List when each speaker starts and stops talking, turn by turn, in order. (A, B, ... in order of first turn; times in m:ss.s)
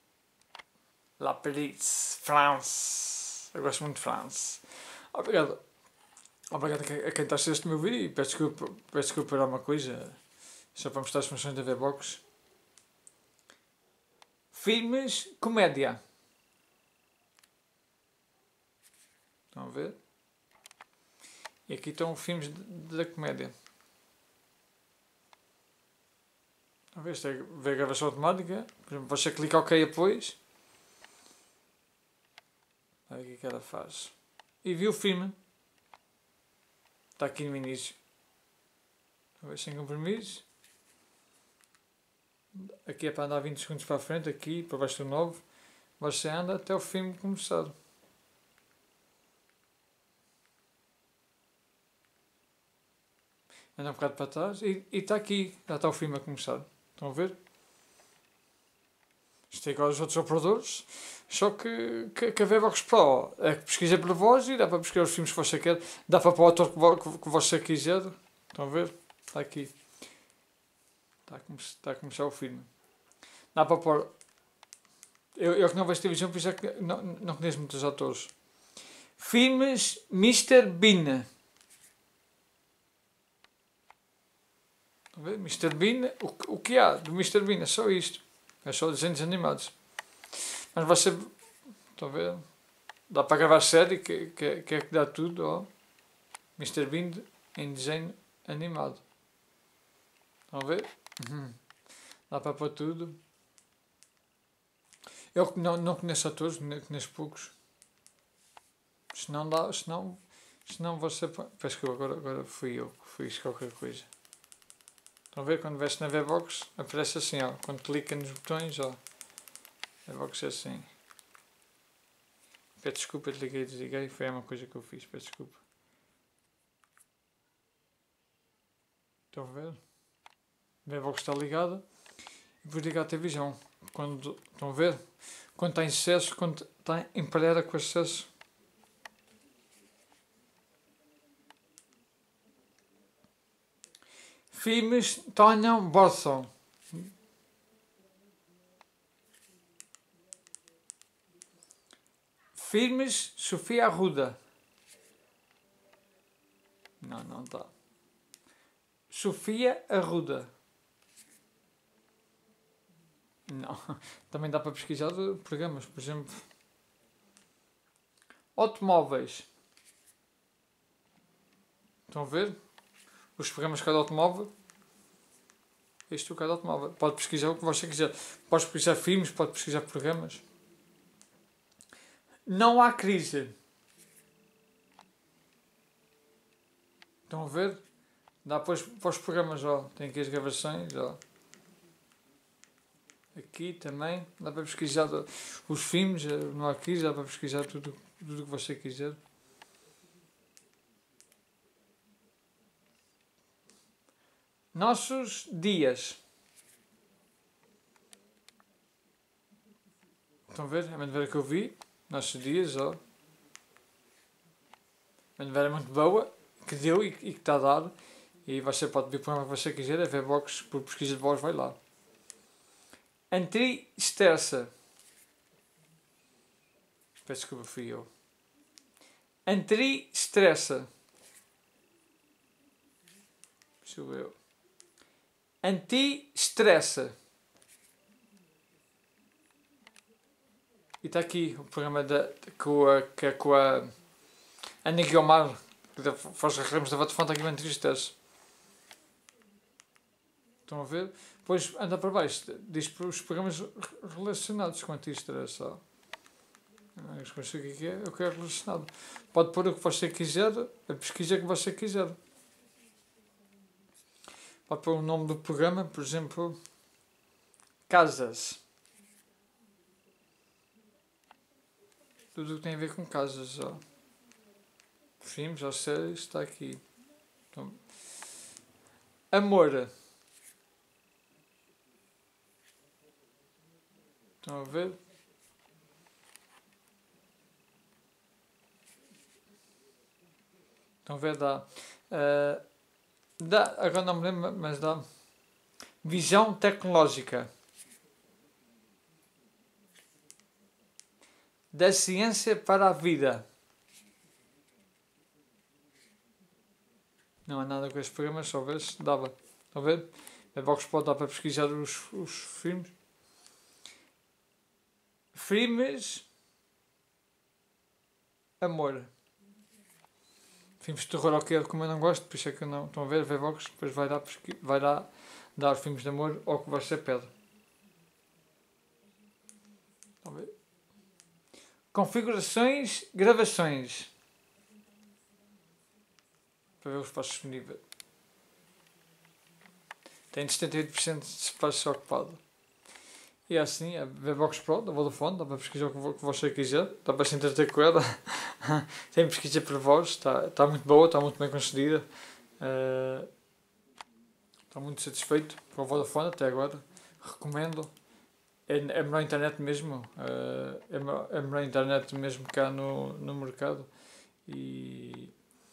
0:01.2-0:05.6 A
0:06.5-0:10.2 A
0:10.7-0:12.2 A
0:14.5-0:16.0 A
0:19.5-0:20.0 A
0:21.7-0:23.5 A
0:26.9-0:30.4 A
0:33.1-0:35.4 A
0:37.2-0:38.0 A
0:39.4-0:40.4 A
0:42.6-0:45.4 A
0:46.0-0:47.7 A
0:53.8-0:57.4 A
0:59.5-1:09.7 A
1:11.3-1:12.7 A
1:13.5-1:14.1 A
1:15.4-1:18.3 A
1:19.2-1:21.3 A
1:25.1-1:29.7 A
1:30.3-1:31.3 A
1:32.0-1:32.5 A
1:33.1-1:35.7 A
1:36.6-1:39.0 A
1:40.5-1:41.6 A
1:42.3-1:43.2 A
1:45.3-1:47.5 A
1:49.1-1:54.1 A
1:55.3-1:59.0 A
2:00.1-2:00.9 A
2:02.8-2:05.6 A
2:09.3-2:09.8 A
2:10.8-2:11.8 A
2:12.6-2:18.3 A
2:24.5-2:27.0 A
2:32.5-2:34.4 A
2:37.0-2:37.7 A
2:39.1-2:40.5 A
2:43.5-2:46.4 A
2:48.6-2:49.5 A
2:52.1-2:52.6 A
2:53.4-2:54.5 A
2:56.1-3:00.4 A
3:02.5-3:03.6 A
3:07.3-3:07.8 A
3:08.4-3:11.2 A
3:13.3-3:19.2 A
3:24.7-3:26.2 A
3:30.5-3:33.0 A
3:35.4-3:37.9 A
3:38.5-3:41.8 A
3:43.3-3:44.7 A
3:47.2-3:48.1 A
3:49.5-3:50.9 A
3:53.8-3:54.4 A
3:55.6-3:57.1 A
4:01.0-4:03.9 A
4:04.8-4:08.1 A
4:10.7-4:15.8 A
4:17.0-4:22.2 A
4:24.7-4:26.6 A
4:27.9-4:28.6 A
4:32.4-4:33.8 A
4:35.2-4:36.8 A
4:37.5-4:37.8 A
4:39.3-4:39.9 A
4:44.4-4:45.0 A
4:51.1-4:52.6 A
4:53.4-4:55.1 A
4:56.0-4:57.5 A
5:01.7-5:03.4 A
5:07.5-5:12.9 A
5:15.3-5:16.2 A
5:18.6-5:19.1 A
5:20.8-5:27.3 A
5:30.2-5:30.5 A
5:31.9-5:34.1 A
5:36.8-5:37.8 A
5:40.3-5:42.4 A
5:43.5-5:52.1 A
5:52.6-5:53.3 A
5:54.7-5:57.9 A
5:58.7-6:03.9 A
6:04.5-6:05.3 A